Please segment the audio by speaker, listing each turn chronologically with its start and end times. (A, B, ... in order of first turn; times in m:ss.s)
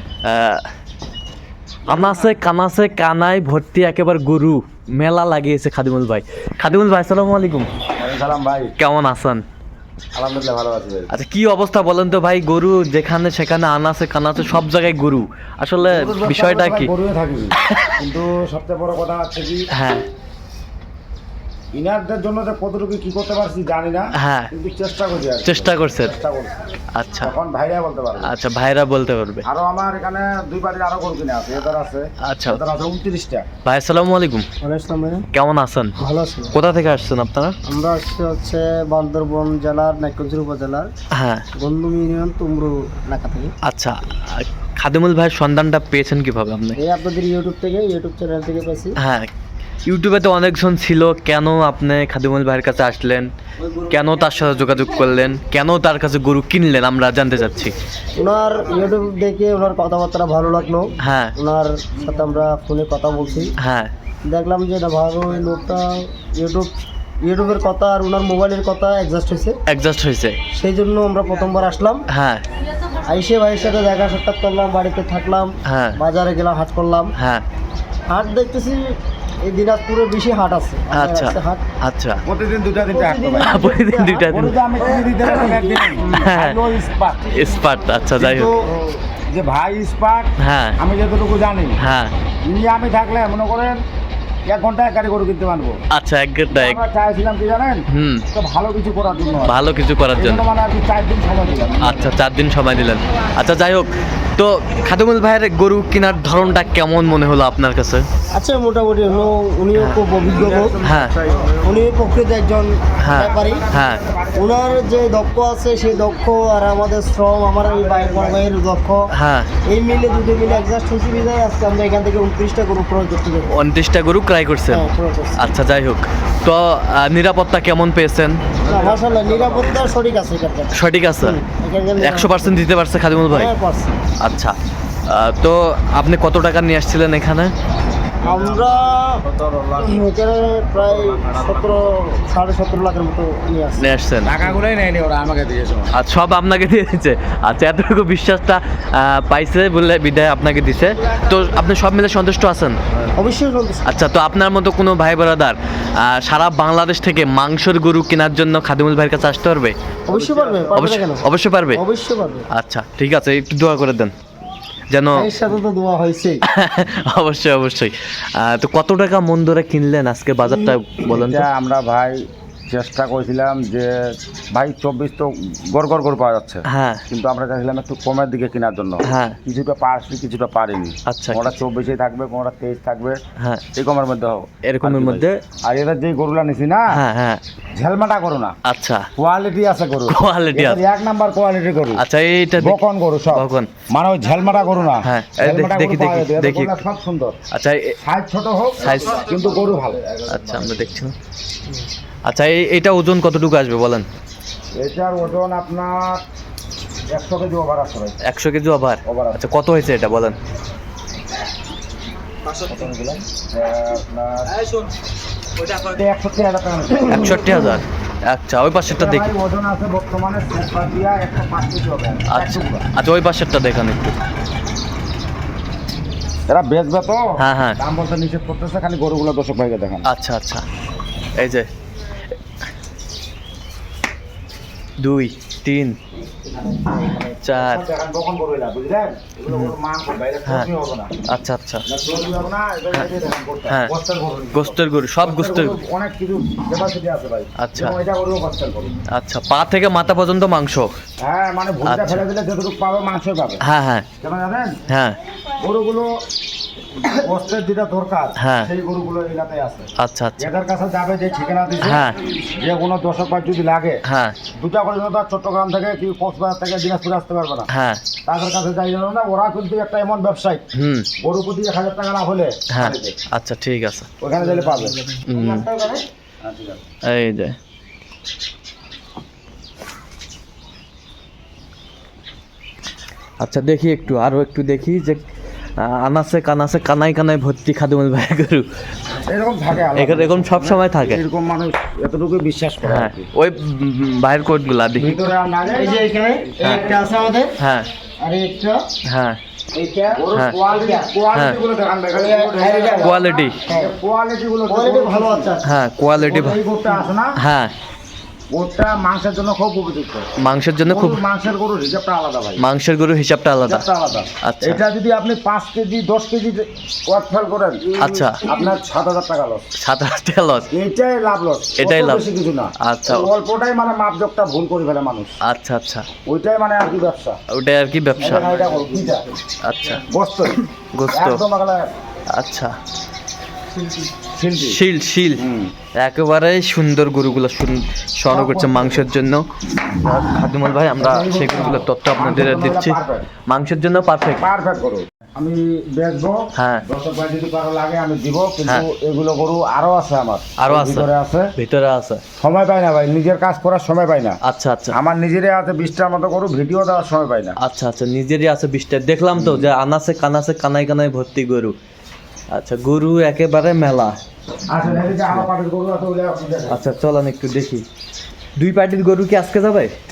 0:00.2-0:00.6 A
0:01.9-0:07.7 A
0:08.0-0:08.7 B
0:08.8-0:09.4 A
0:10.1-0:11.1 B
0:11.1-0:16.9 A
0:15.8-0:19.6 B
0:17.7-0:17.9 A
0:19.7-0:20.0 A
0:21.7-0:26.5 B
0:24.2-0:24.5 A
0:25.4-0:26.1 A
0:26.9-0:27.3 A
0:27.2-0:28.3 B
0:28.2-0:29.4 A
0:29.4-0:33.5 B
0:32.2-0:32.6 A
0:33.6-0:34.4 A
0:34.6-0:35.2 C
0:35.3-0:36.0 A
0:36.0-0:36.6 C
0:36.5-0:37.6 A
0:37.7-0:40.9 C
0:41.1-0:41.4 A
0:41.6-0:43.5 C
0:43.7-0:46.8 A
0:46.8-0:49.0 C
0:49.0-0:49.3 A
0:49.8-0:53.3 A
0:53.9-0:57.7 A
0:58.2-1:03.5 C
1:01.0-1:01.3 A
1:03.6-1:03.9 A
1:04.2-1:06.7 C
1:07.2-1:09.6 C
1:09.7-1:10.4 A
1:10.5-1:12.0 C
1:12.1-1:12.4 A
1:13.1-1:17.1 C
1:15.6-1:16.0 A
1:17.2-1:17.4 A
1:18.1-1:21.6 C
1:20.9-1:22.2 A
1:22.2-1:23.5 B
1:22.9-1:24.3 C
1:23.4-1:24.6 A
1:24.3-1:26.1 B
1:25.2-1:27.4 C
1:26.1-1:28.5 A
1:28.2-1:28.7 C
1:29.3-1:31.8 B
1:30.4-1:30.8 A
1:31.8-1:32.1 A
1:32.4-1:33.8 B
1:34.5-1:35.8 B
1:35.9-1:36.8 A
1:36.5-1:39.6 B
1:37.9-1:38.2 A
1:39.4-1:40.4 A
1:40.2-1:42.1 B
1:41.8-1:48.1 A
1:48.3-1:50.8 C
1:49.7-1:50.0 A
1:50.3-1:51.6 B
1:50.8-1:51.1 A
1:51.6-1:53.6 C
1:53.0-1:54.0 A
1:53.2-1:55.0 B
1:54.3-1:59.1 C
1:57.8-1:58.4 B
1:59.1-1:59.5 A
1:59.6-2:03.5 C
2:03.5-2:04.8 A
2:04.7-2:05.5 C
2:05.4-2:08.4 A
2:08.6-2:09.6 B
2:08.6-2:12.7 C
2:10.7-2:11.4 A
2:12.0-2:13.5 A
2:13.2-2:14.0 C
2:14.2-2:14.6 A
2:15.1-2:17.5 A
2:18.2-2:19.2 C
2:18.2-2:18.5 B
2:19.4-2:19.8 B
2:19.8-2:23.8 C
2:23.8-2:24.3 A
2:24.2-2:25.9 B
2:25.9-2:32.8 A
2:33.2-2:33.8 C
2:33.8-2:39.7 A
2:40.1-2:42.4 C
2:40.7-2:41.8 A
2:42.5-2:44.1 A
2:44.9-2:45.3 A
2:45.1-2:46.4 C
2:46.5-2:51.5 A
2:50.4-2:52.2 B
2:52.7-2:53.9 B
2:54.5-3:03.2 B
2:56.7-2:57.0 A
2:59.0-2:59.4 A
3:01.1-3:01.6 A
3:03.4-3:03.6 A
3:03.8-3:06.9 B
3:04.6-3:05.4 A
3:06.9-3:07.4 A
3:07.8-3:08.5 B
3:08.6-3:09.1 A
3:09.2-3:12.0 B
3:10.1-3:10.8 A
3:12.0-3:12.8 A
3:12.6-3:17.4 B
3:13.3-3:13.7 A
3:15.0-3:16.8 A
3:17.5-3:18.0 A
3:18.0-3:20.8 B
3:18.8-3:19.3 A
3:20.3-3:21.1 A
3:22.2-3:24.1 A
3:24.8-3:26.2 B
3:27.1-3:28.2 B
3:28.2-3:30.4 A
3:29.0-3:29.4 B
3:32.6-3:34.5 B
3:35.8-3:37.7 B
3:37.0-3:39.3 A
3:38.8-3:42.9 B
3:42.3-3:44.2 A
3:46.5-3:47.2 B
3:47.4-3:47.8 A
3:47.8-3:50.1 B
3:50.1-3:50.6 A
3:51.4-3:51.7 A
3:55.0-3:56.0 A
3:56.7-4:01.1 B
3:57.4-3:57.8 A
4:01.3-4:01.8 A
4:01.9-4:08.9 B
4:04.5-4:05.8 A
4:07.6-4:08.0 A
4:09.1-4:10.9 A
4:11.2-4:13.6 B
4:11.8-4:12.2 A
4:13.6-4:14.1 A
4:14.2-4:14.8 B
4:14.9-4:15.2 A
4:15.6-4:16.0 B
4:17.0-4:24.0 B
4:18.4-4:18.7 A
4:20.0-4:20.5 A
4:21.8-4:22.2 A
4:24.0-4:24.4 A
4:24.6-4:27.7 B
4:27.7-4:28.0 A
4:28.2-4:30.7 B
4:30.7-4:31.1 A
4:31.2-4:33.2 B
4:32.7-4:34.1 A
4:34.2-4:35.0 B
4:34.4-4:36.0 C
4:35.2-4:35.7 A
4:36.4-4:36.8 B
4:37.0-4:37.6 A
4:43.4-4:45.2 A
4:45.8-4:48.7 A
4:49.2-4:53.3 B
4:49.9-4:51.2 A
4:52.8-4:55.1 A
4:55.0-4:56.0 B
4:55.7-4:57.5 C
4:57.6-4:57.9 A
4:58.2-4:58.8 C
4:59.1-4:59.4 A
4:59.7-5:01.1 C
5:00.1-5:05.5 B
5:02.1-5:03.9 C
5:03.0-5:03.6 A
5:04.7-5:05.7 C
5:05.6-5:06.6 A
5:06.2-5:07.4 B
5:07.4-5:07.7 A
5:08.5-5:10.3 B
5:10.4-5:11.2 A
5:10.8-5:12.6 B
5:12.6-5:13.8 A
5:13.6-5:19.6 B
5:14.4-5:14.8 A
5:17.9-5:18.7 C
5:18.0-5:18.4 A
5:19.8-5:20.7 A
5:20.7-5:25.3 B
5:21.8-5:22.2 A
5:22.8-5:23.3 A
5:25.5-5:26.0 A
5:26.3-5:27.4 B
5:27.5-5:28.5 A
5:28.2-5:29.3 B
5:28.4-5:28.8 C
5:29.6-5:30.0 A
5:30.1-5:31.8 B
5:30.9-5:31.4 A
5:32.3-5:32.7 A
5:34.3-5:34.8 B
5:34.6-5:35.4 A
5:35.4-5:35.7 B
5:36.0-5:44.4 A
5:38.3-5:39.0 B
5:41.0-5:43.3 B
5:44.4-5:51.5 B
5:46.5-5:46.8 A
5:50.6-5:52.2 A
5:52.4-5:54.4 B
5:54.4-5:54.9 A
5:54.9-5:57.6 B
5:57.6-6:01.7 A
5:59.3-5:59.7 B
6:02.5-6:04.2 A
6:04.7-6:06.8 B
6:04.8-6:05.5 A
6:06.7-6:07.8 A
6:08.6-6:09.9 A